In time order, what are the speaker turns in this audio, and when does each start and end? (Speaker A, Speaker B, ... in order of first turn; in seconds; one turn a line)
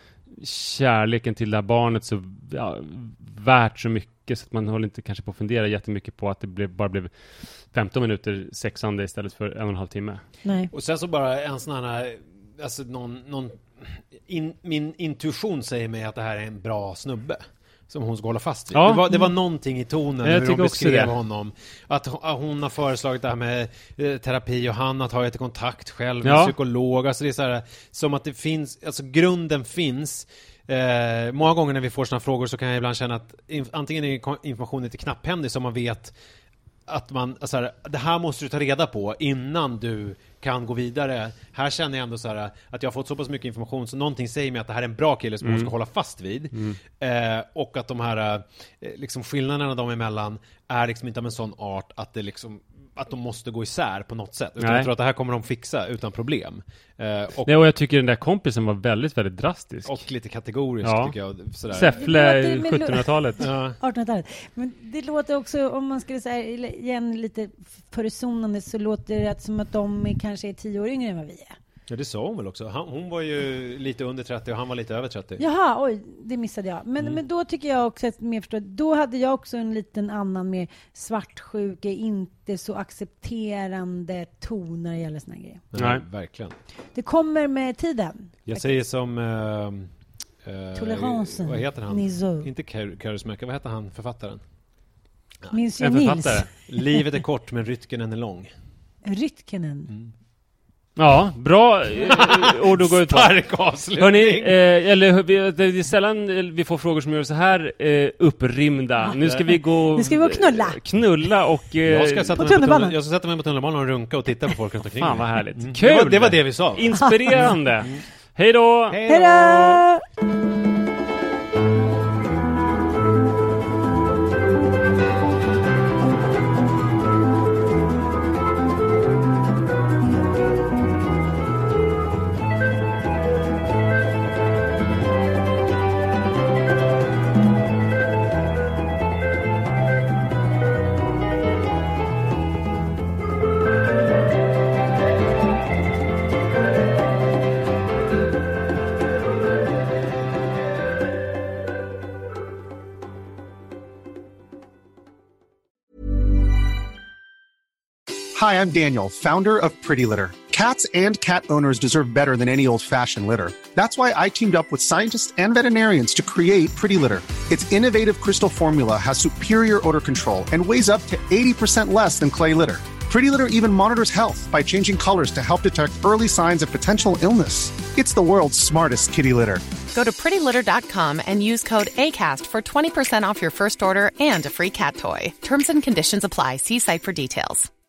Speaker A: 0.3-7.1
Speaker A: 7.7-10.2
Speaker B: 10.4-10.7
Speaker C: 10.7-36.1
Speaker A: 18.7-19.1
Speaker A: 20.2-21.1
Speaker A: 26.2-26.5
Speaker C: 36.9-57.5
Speaker A: 45.4-45.7
Speaker A: 54.6-54.9
Speaker A: 57.4-60.0
Speaker C: 59.9-62.0
Speaker A: 60.8-63.5
Speaker B: 61.9-71.5
Speaker C: 63.4-63.8
Speaker C: 71.9-75.4
Speaker B: 75.4-85.6
Speaker C: 85.7-86.5
Speaker A: 85.8-86.0
Speaker B: 86.9-88.8
Speaker C: 88.5-89.9
Speaker C: 90.5-94.4
Speaker B: 90.8-92.5
Speaker B: 95.5-96.5
Speaker A: 95.8-96.6
Speaker C: 96.7-98.5
Speaker B: 99.0-99.9
Speaker A: 101.0-112.3
Speaker C: 102.1-104.5
Speaker B: 109.8-110.8
Speaker C: 111.8-118.0
Speaker B: 112.3-113.0
Speaker A: 115.0-119.0
Speaker B: 116.9-117.5
Speaker C: 118.9-119.8
Speaker B: 119.1-120.0
Speaker D: 158.3-179.6
Speaker E: 179.9-187.7